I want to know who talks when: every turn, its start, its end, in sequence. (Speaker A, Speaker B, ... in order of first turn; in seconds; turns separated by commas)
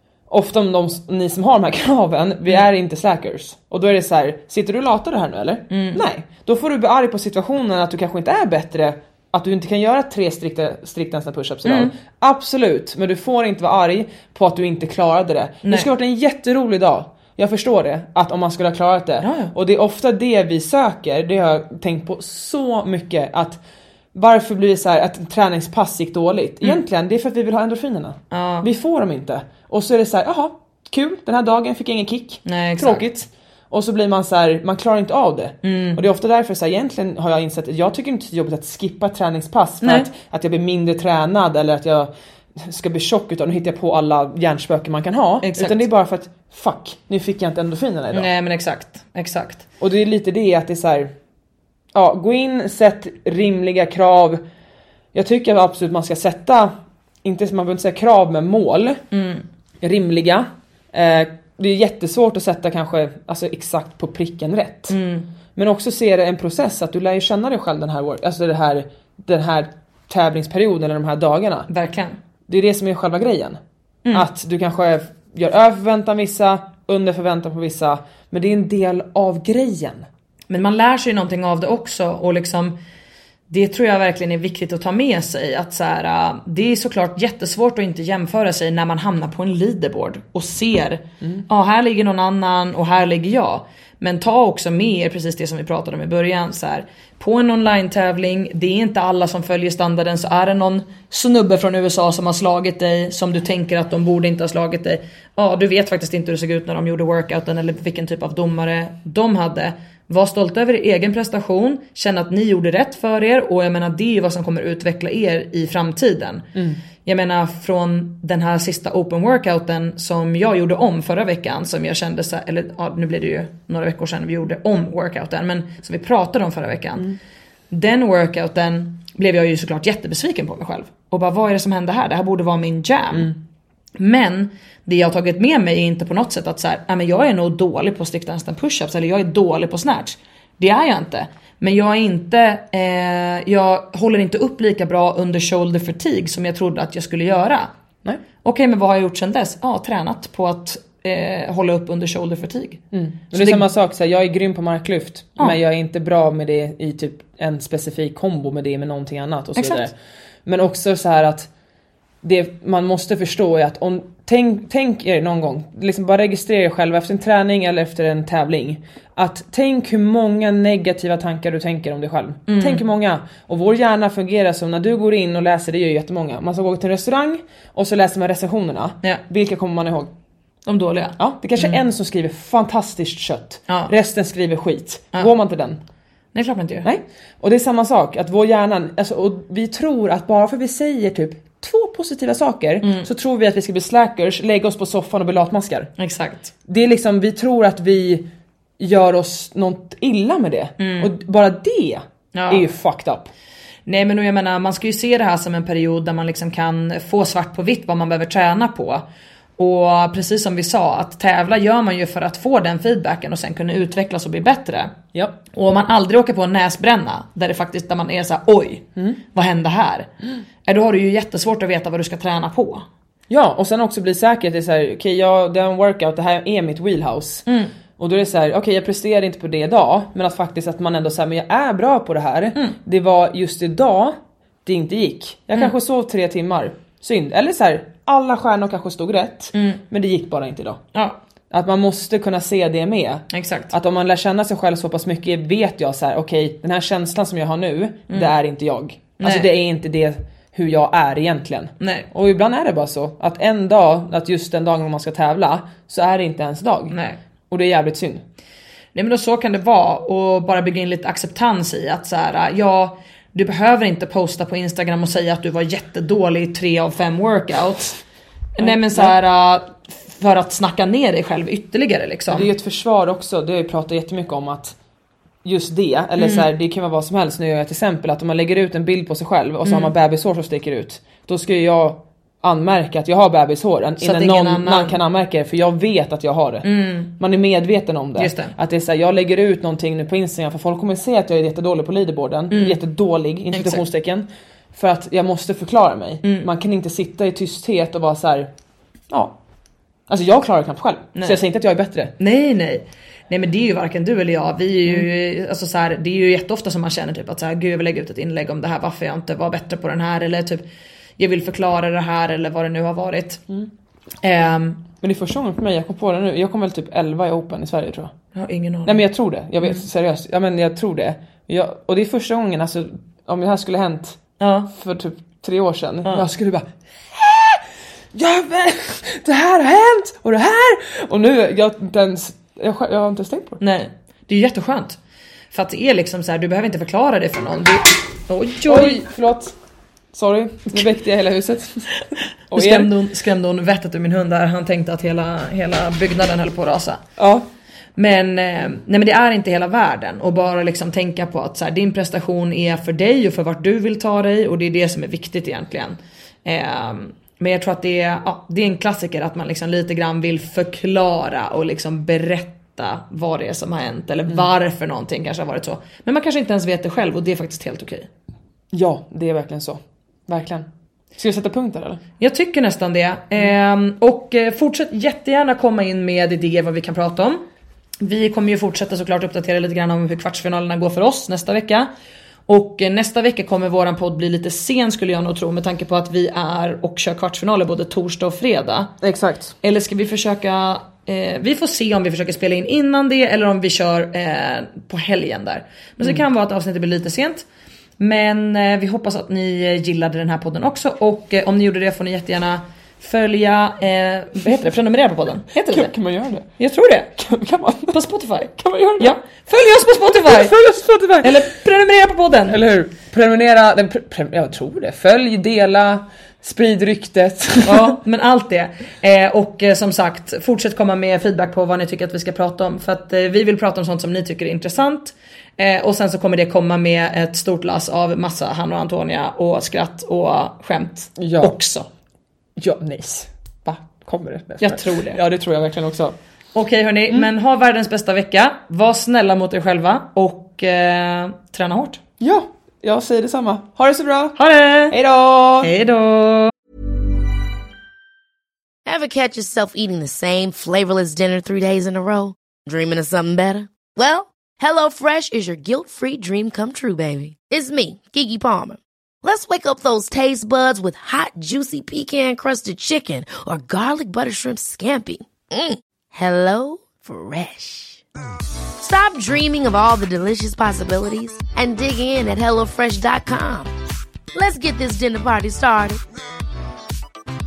Speaker A: 0.3-23.6, Speaker B: 5.7-6.0, Speaker B: 11.6-11.9, Speaker B: 15.6-15.9, Speaker B: 19.2-19.5, Speaker A: 24.1-48.3, Speaker B: 28.3-28.7, Speaker B: 32.5-33.1, Speaker B: 35.6-36.0, Speaker B: 39.8-40.1, Speaker B: 45.4-45.9, Speaker B: 48.1-49.6, Speaker A: 49.8-51.1, Speaker A: 51.9-54.4, Speaker A: 55.1-56.7, Speaker A: 57.2-59.0, Speaker B: 59.1-59.4, Speaker A: 59.8-65.0, Speaker B: 64.9-65.3, Speaker A: 65.5-71.7, Speaker B: 71.7-72.2, Speaker A: 72.5-73.6, Speaker A: 74.1-80.1, Speaker B: 80.5-82.8, Speaker B: 83.5-116.5, Speaker B: 117.0-127.1, Speaker B: 127.7-133.3, Speaker B: 134.0-147.7, Speaker B: 148.4-153.7, Speaker A: 152.9-161.5, Speaker B: 159.6-159.9, Speaker A: 162.2-180.1, Speaker B: 172.5-172.8, Speaker B: 180.7-181.8, Speaker A: 181.2-185.8, Speaker B: 186.3-186.9, Speaker A: 186.8-195.9, Speaker B: 192.8-193.1, Speaker B: 196.0-196.5, Speaker A: 196.7-203.3, Speaker B: 200.8-201.1, Speaker B: 202.3-202.7, Speaker B: 203.8-209.0, Speaker B: 209.6-214.9, Speaker A: 215.1-215.4, Speaker B: 215.5-220.1, Speaker B: 220.7-222.8, Speaker A: 223.3-227.4, Speaker B: 227.5-227.7, Speaker A: 228.0-240.8, Speaker B: 239.5-239.8, Speaker A: 241.5-256.9, Speaker B: 243.3-243.7, Speaker B: 249.2-249.5, Speaker B: 251.8-252.1, Speaker B: 256.9-257.2, Speaker A: 257.5-258.2, Speaker B: 258.9-268.0, Speaker B: 268.6-272.5, Speaker A: 268.6-269.1, Speaker A: 272.3-274.8, Speaker A: 275.4-298.5, Speaker B: 276.2-276.5, Speaker B: 279.6-279.9, Speaker B: 284.0-285.0, Speaker B: 286.6-287.1, Speaker B: 288.2-288.5, Speaker B: 292.5-292.8, Speaker B: 293.5-293.8, Speaker A: 299.1-299.4, Speaker A: 300.1-302.1, Speaker B: 301.1-301.4, Speaker B: 302.2-310.6, Speaker B: 311.2-313.4, Speaker B: 314.2-314.8, Speaker A: 315.0-318.1, Speaker B: 318.3-319.0, Speaker A: 318.9-324.2, Speaker B: 324.4-324.7, Speaker A: 324.7-333.6, Speaker B: 333.6-335.0, Speaker B: 335.5-339.0, Speaker A: 338.6-339.5, Speaker A: 340.1-342.9, Speaker B: 342.5-347.0, Speaker A: 347.2-347.4, Speaker B: 347.9-368.1, Speaker A: 368.7-372.0, Speaker B: 372.2-377.4, Speaker B: 378.0-381.9, Speaker B: 382.5-388.9, Speaker A: 389.0-389.5, Speaker B: 389.6-397.4, Speaker B: 398.0-405.9, Speaker A: 405.7-406.5, Speaker B: 406.6-407.1, Speaker A: 407.2-408.0, Speaker B: 407.9-410.5, Speaker A: 408.6-409.2, Speaker A: 410.0-411.4, Speaker B: 411.2-412.6, Speaker A: 412.5-417.9, Speaker B: 417.6-431.9, Speaker A: 431.2-431.5, Speaker A: 432.6-436.2, Speaker B: 434.6-435.2, Speaker B: 436.5-442.0, Speaker A: 442.2-445.7, Speaker B: 444.4-445.0, Speaker B: 445.6-446.5, Speaker C: 448.9-468.0, Speaker C: 468.8-473.7, Speaker C: 474.3-476.0